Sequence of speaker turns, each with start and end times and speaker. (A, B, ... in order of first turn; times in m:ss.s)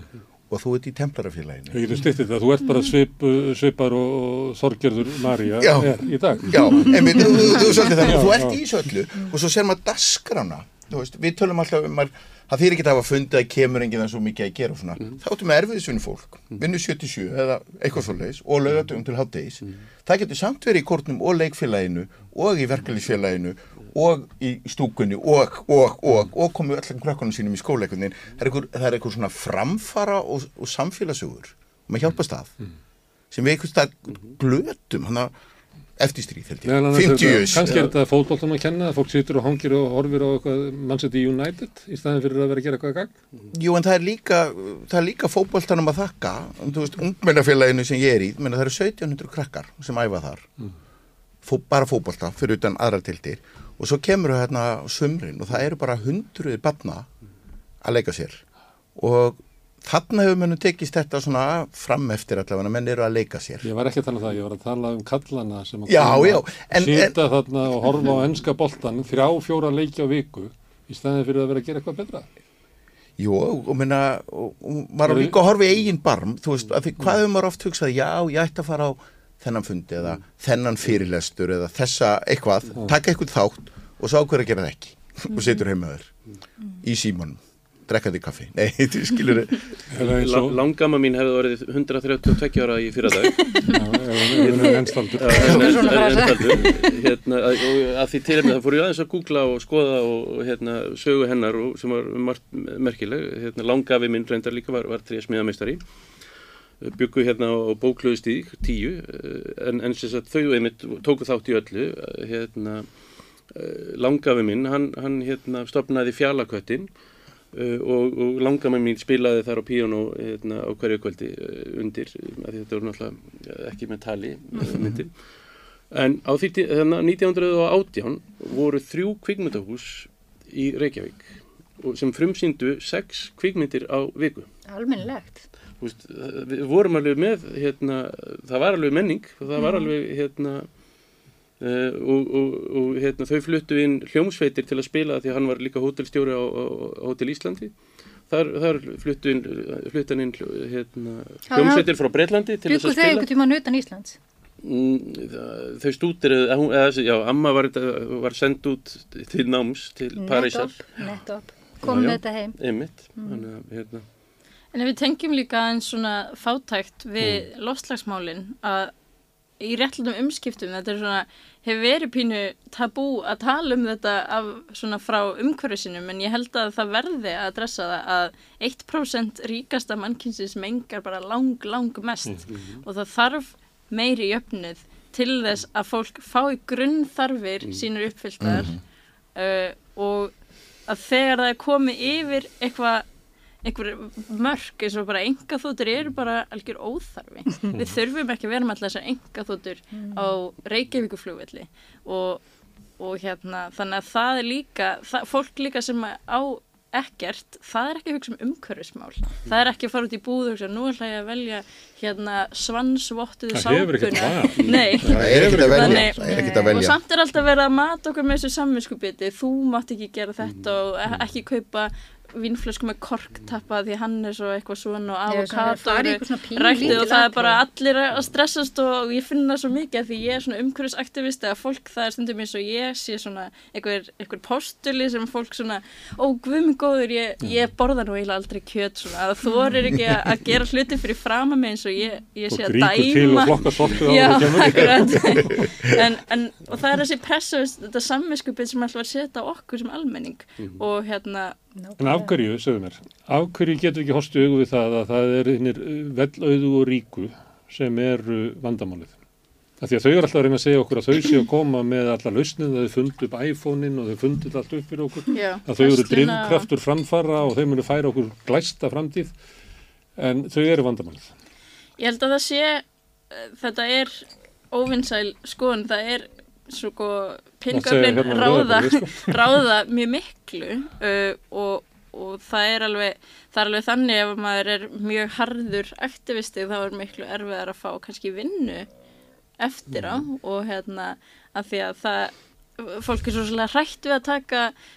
0:00.5-0:02.0 A
0:01.7-0:08.6 B
0:05.6-0:32.5 A
0:33.3-0:35.3 A
0:36.0-0:37.9 A
0:36.6-0:43.1 B
0:43.5-0:50.5 A
0:51.4-0:57.1 A
0:57.8-0:58.4 A
0:59.0-1:03.7 A
1:03.6-1:12.3 B
1:05.9-1:07.2 A
1:13.2-1:26.1 A
1:15.1-1:15.4 B
1:26.8-1:29.7 A
1:29.9-1:30.6 B
1:30.0-1:33.7 C
1:33.7-1:35.8 B
1:34.4-1:37.0 D
1:35.2-1:45.8 C
1:35.3-1:35.8 A
1:46.8-1:52.9 C
1:53.5-1:56.9 C
1:57.5-2:05.1 C
2:05.9-2:14.5 C
2:14.7-2:15.5 D
2:15.8-2:20.7 C
2:19.6-2:19.9 D
2:21.6-2:27.7 C
2:28.3-2:33.3 C
2:31.5-2:32.0 D
2:32.6-2:34.2 D
2:34.6-2:40.9 C
2:40.2-2:42.6 D
2:41.8-2:44.0 C
2:43.2-2:43.5 D
2:44.7-2:48.9 E
2:47.2-2:47.5 B
2:49.6-3:08.7 E
3:02.5-3:02.8 C
3:08.4-3:08.8 A
3:09.4-3:10.3 E
3:10.9-3:13.0 E
3:13.6-3:22.4 E
3:19.9-3:20.3 D
3:23.0-4:11.6 E
3:33.5-3:36.2 B
3:34.6-3:34.9 C
3:35.1-3:37.0 A
3:36.2-3:36.8 D
3:45.3-3:47.6 D
4:02.5-4:05.7 B
4:10.6-4:10.8 C
4:11.8-4:12.3 D
4:12.0-4:19.2 B
4:19.8-4:29.3 B
4:25.3-4:26.7 E
4:30.2-4:31.3 B
4:32.0-4:48.9 E
4:37.7-4:39.4 B
4:49.6-4:54.7 E